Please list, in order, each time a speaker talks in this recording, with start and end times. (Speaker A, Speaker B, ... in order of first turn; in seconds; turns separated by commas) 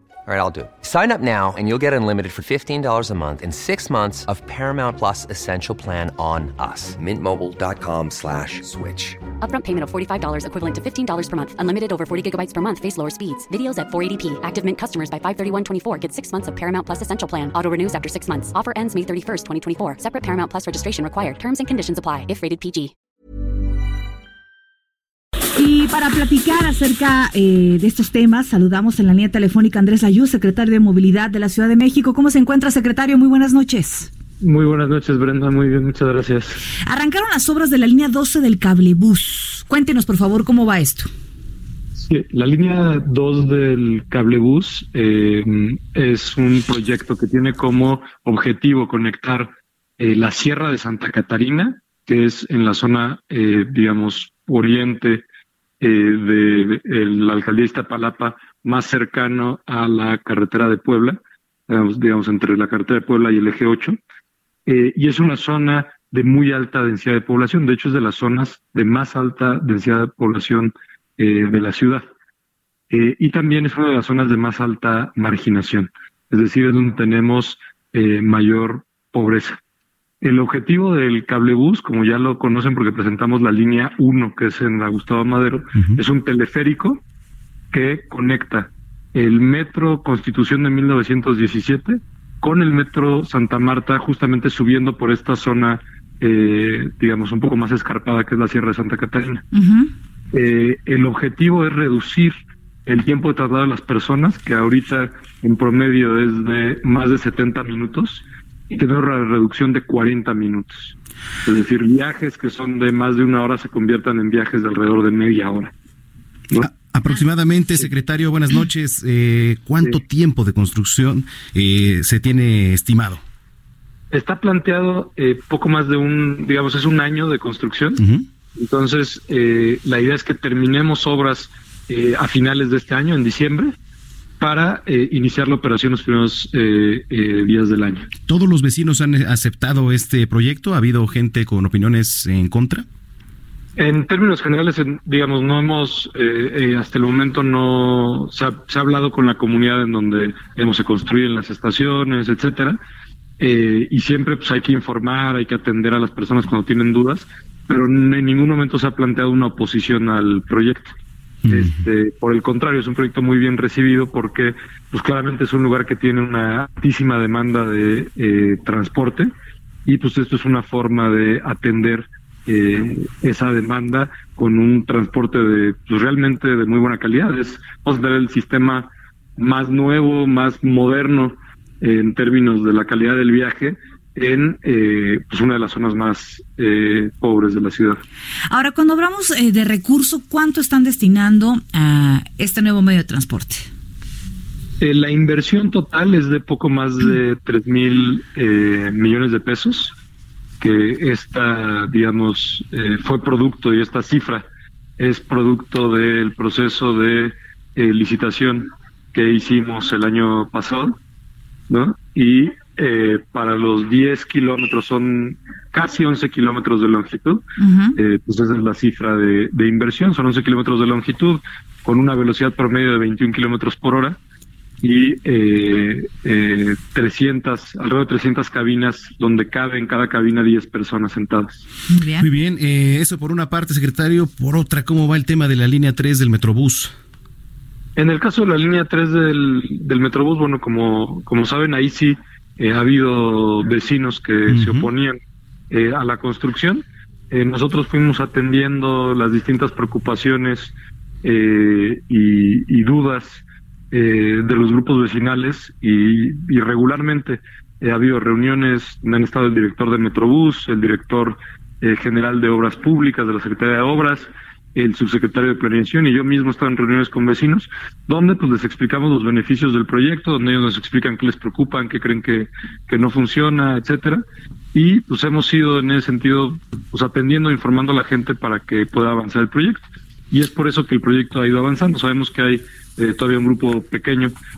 Speaker A: 0.2-9.0, Speaker B: 9.4-22.9, Speaker C: 25.6-34.1, Speaker D: 34.4-36.6, Speaker C: 36.8-41.1, Speaker D: 41.9-55.2, Speaker D: 55.8-64.0, Speaker D: 64.7-72.0, Speaker D: 72.9-79.6, Speaker D: 80.2-87.0, Speaker D: 87.7-99.4, Speaker C: 99.5-99.9, Speaker D: 100.3-102.3, Speaker D: 102.8-115.7, Speaker E: 116.6-123.2, Speaker D: 124.1-128.0, Speaker E: 128.0-128.2, Speaker D: 128.6-133.7, Speaker D: 134.4-138.1, Speaker E: 138.3-142.8, Speaker D: 143.8-152.8, Speaker D: 153.4-160.9, Speaker E: 161.4-161.8, Speaker D: 161.5-169.3, Speaker D: 169.8-188.0, Speaker C: 188.5-193.7, Speaker D: 194.8-199.9, Speaker D: 200.6-204.4, Speaker D: 205.0-211.0, Speaker D: 211.7-217.4, Speaker C: 217.6-218.0, Speaker D: 217.9-224.2, Speaker D: 224.8-231.6, Speaker C: 231.9-232.3, Speaker E: 232.2-236.9, Speaker D: 237.9-245.2, Speaker E: 244.5-244.9, Speaker D: 245.7-284.3